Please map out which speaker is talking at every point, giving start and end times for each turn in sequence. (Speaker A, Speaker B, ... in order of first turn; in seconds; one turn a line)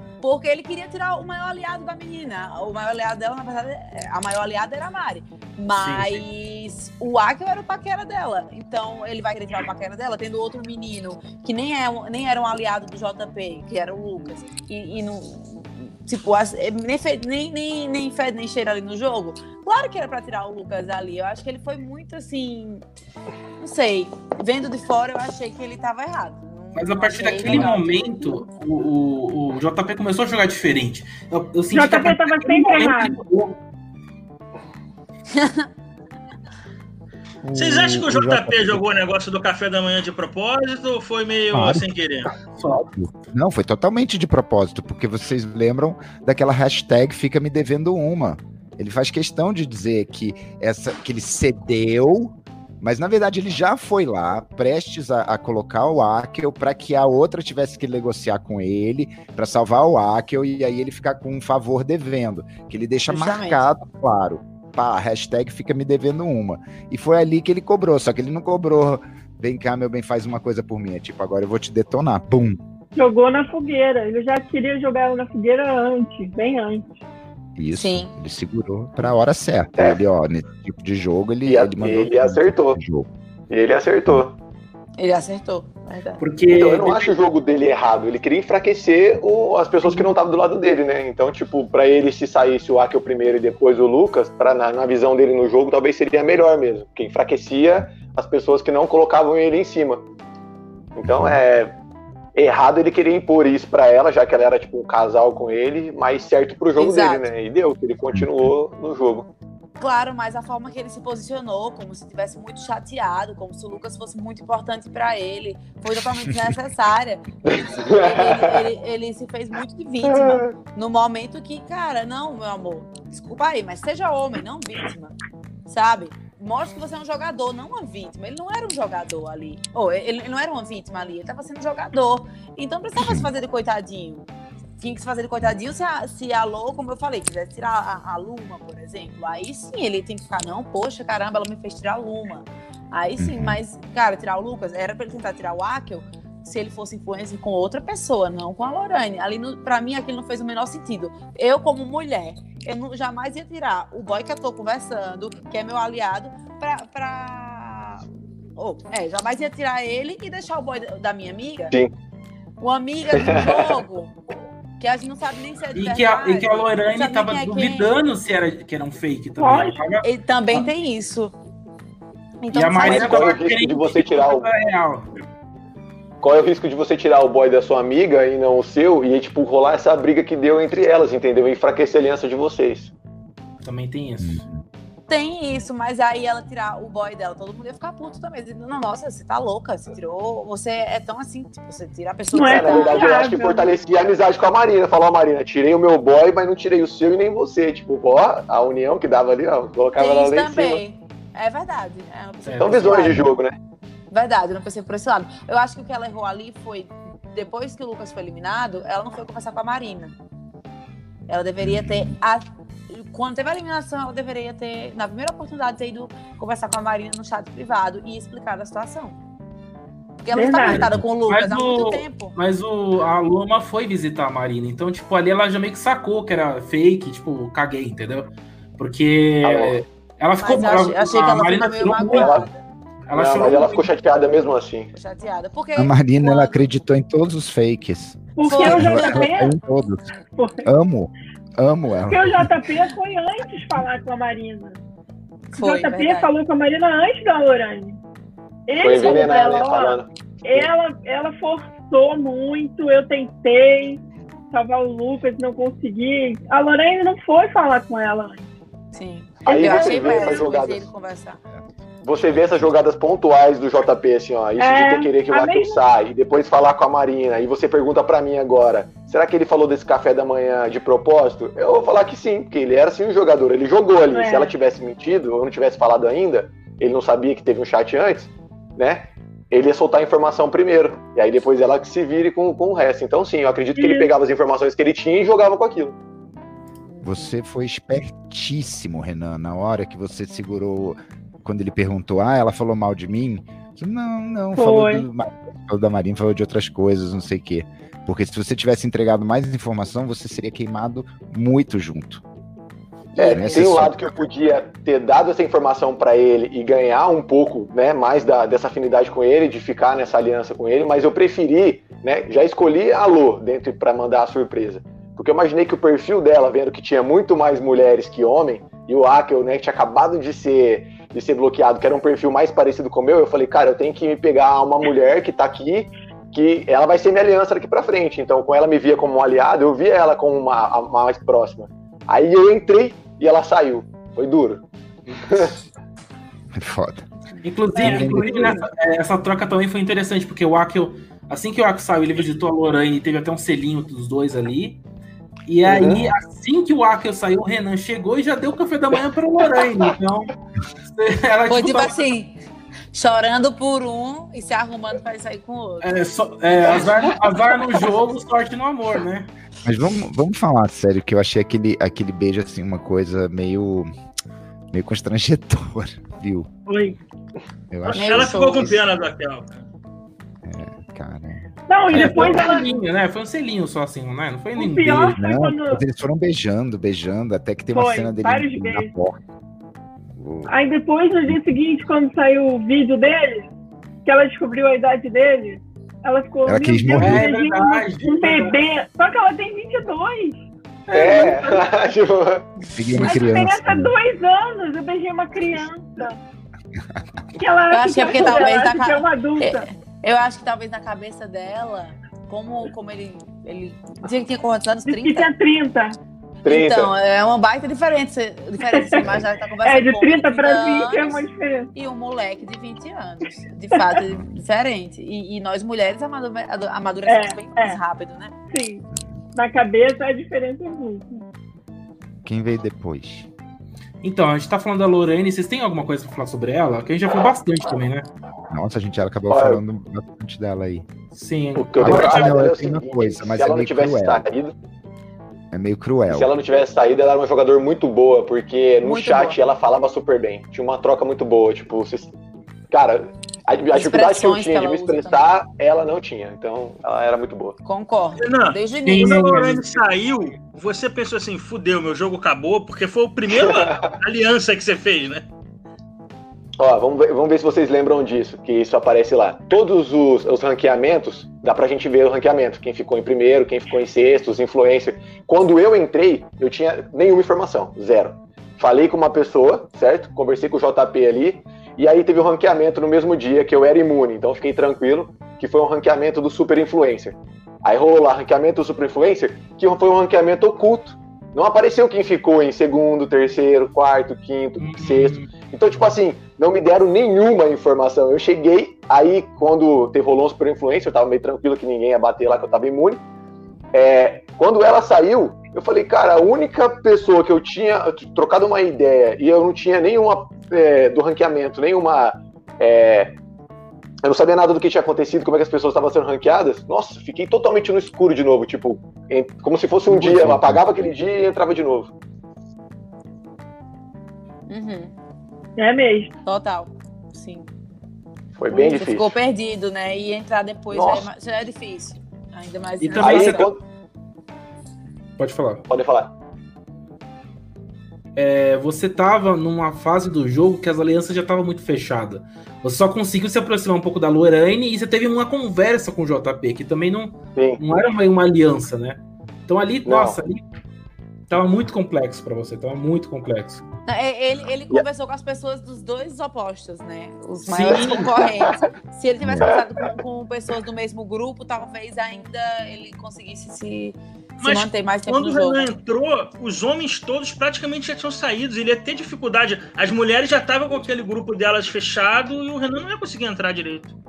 Speaker A: 0.2-22.8
Speaker B: 5.8-6.2
Speaker A: 23.6-28.4
Speaker B: 26.7-33.6
Speaker C: 27.4-27.7
Speaker D: 31.7-33.2
Speaker A: 35.3-35.7
Speaker C: 37.4-38.8
Speaker E: 37.5-42.3
Speaker C: 41.5-41.9
Speaker B: 42.5-42.9
Speaker C: 42.9-72.6
Speaker A: 63.1-63.6
Speaker D: 73.0-77.0
Speaker C: 77.5-83.1
Speaker A: 77.7-78.1
Speaker F: 79.8-80.0
Speaker F: 81.5-82.8
Speaker F: 83.5-84.3
Speaker A: 85.0-86.2
Speaker B: 86.2-87.2
Speaker F: 86.5-100.0
Speaker F: 101.0-101.7
Speaker C: 101.0-101.4
Speaker F: 102.3-109.3
Speaker A: 106.8-107.3
Speaker C: 108.1-108.5
Speaker A: 109.8-125.1
Speaker C: 116.1-116.5
Speaker F: 117.4-118.7
Speaker F: 120.0-120.5
Speaker A: 125.7-158.1
Speaker C: 132.9-133.3
Speaker C: 143.2-143.6
Speaker A: 158.6-161.7
Speaker A: 162.6-164.2
Speaker F: 163.1-163.8
Speaker A: 164.8-167.9
Speaker B: 165.7-170.7
Speaker D: 169.4-169.8
Speaker A: 170.0-171.3
Speaker A: 172.4-173.3
Speaker B: 172.5-175.2
Speaker F: 172.8-174.5
Speaker F: 176.2-182.9
Speaker B: 183.6-184.4
Speaker C: 184.2-184.6
Speaker A: 185.1-193.1
Speaker D: 192.3-193.7
Speaker F: 192.4-200.8
Speaker A: 200.0-203.3
Speaker B: 202.4-203.2
Speaker F: 202.6-203.6
Speaker A: 204.1-210.1
Speaker A: 211.3-219.2
Speaker C: 211.6-212.1
Speaker A: 220.2-222.3
Speaker D: 220.3-220.9
Speaker C: 220.7-221.1
Speaker B: 221.2-232.4
Speaker F: 229.4-229.8
Speaker A: 230.4-232.6
Speaker F: 232.0-232.5
Speaker B: 233.1-233.9
Speaker F: 233.1-234.9
Speaker A: 234.9-236.6
Speaker C: 235.8-240.1
Speaker D: 238.4-239.5
Speaker A: 238.4-239.3
Speaker D: 240.4-240.7
Speaker C: 240.6-242.6
Speaker D: 242.1-244.8
Speaker A: 245.5-246.3
Speaker D: 245.6-248.0
Speaker D: 248.7-258.5
Speaker F: 248.8-250.7
Speaker A: 249.0-249.3
Speaker A: 258.9-261.4
Speaker F: 259.4-260.9
Speaker D: 259.4-260.5
Speaker F: 262.0-285.9
Speaker C: 262.2-262.7
Speaker D: 264.6-265.8
Speaker D: 274.1-274.6
Speaker D: 283.7-284.1
Speaker A: 286.9-287.3
Speaker C: 287.0-302.2
Speaker D: 294.5-295.1
Speaker C: 303.1-304.2
Speaker F: 303.1-335.6
Speaker C: 336.5-337.1
Speaker B: 337.4-344.8
Speaker D: 337.7-338.6
Speaker C: 337.8-338.6
Speaker B: 345.5-352.1
Speaker F: 345.6-346.1
Speaker A: 351.5-352.4
Speaker A: 352.9-355.9
Speaker B: 355.8-359.3
Speaker C: 359.6-363.9
Speaker C: 364.7-366.5
Speaker D: 366.7-367.0
Speaker C: 367.7-368.8
Speaker E: 367.9-369.6
Speaker A: 367.9-368.8
Speaker C: 370.4-372.4
Speaker D: 371.7-372.8
Speaker B: 371.9-375.2
Speaker D: 374.6-375.8
Speaker C: 375.1-379.2
Speaker D: 377.7-378.9
Speaker C: 380.1-380.5
Speaker D: 380.5-383.5
Speaker D: 384.1-390.4
Speaker C: 386.4-387.3
Speaker B: 387.0-388.6
Speaker B: 390.9-391.7
Speaker F: 390.9-392.5
Speaker C: 392.7-393.9
Speaker A: 392.8-393.1
Speaker D: 392.9-396.2
Speaker D: 397.4-399.7
Speaker A: 397.7-405.3
Speaker D: 404.8-406.0
Speaker F: 406.4-406.9
Speaker A: 406.4-411.2
Speaker D: 408.7-409.1
Speaker D: 409.6-411.7
Speaker A: 411.7-418.3
Speaker D: 417.1-417.8
Speaker D: 418.5-418.8
Speaker C: 418.9-419.2
Speaker D: 419.3-421.2
Speaker C: 422.2-423.3
Speaker B: 424.0-428.1
Speaker C: 428.5-430.9
Speaker F: 429.3-429.6
Speaker B: 431.1-432.3
Speaker F: 431.6-434.5
Speaker C: 431.8-434.2
Speaker C: 435.5-436.3
Speaker F: 436.1-442.1
Speaker A: 438.8-439.4
Speaker F: 442.7-447.6
Speaker A: 443.7-445.3
Speaker A: 447.6-449.4
Speaker E: 448.2-455.2
Speaker B: 448.9-449.6
Speaker F: 453.3-453.9
Speaker F: 456.6-493.0
Speaker B: 484.6-485.9
Speaker F: 493.7-503.1
Speaker F: 504.0-511.9
Speaker C: 509.9-510.9
Speaker A: 514.5-514.9
Speaker D: 515.6-516.1
Speaker A: 516.2-517.5
Speaker F: 518.4-519.1
Speaker A: 518.5-523.5
Speaker F: 520.7-521.0
Speaker B: 522.8-523.5
Speaker F: 523.0-523.6
Speaker B: 525.2-525.6
Speaker F: 525.7-526.1
Speaker B: 528.1-540.5
Speaker F: 537.3-537.6
Speaker F: 539.8-540.2
Speaker B: 541.3-543.6
Speaker A: 543.9-555.7
Speaker B: 547.4-548.1
Speaker F: 547.8-548.6
Speaker C: 549.2-549.5
Speaker F: 549.4-549.7
Speaker E: 554.4-563.9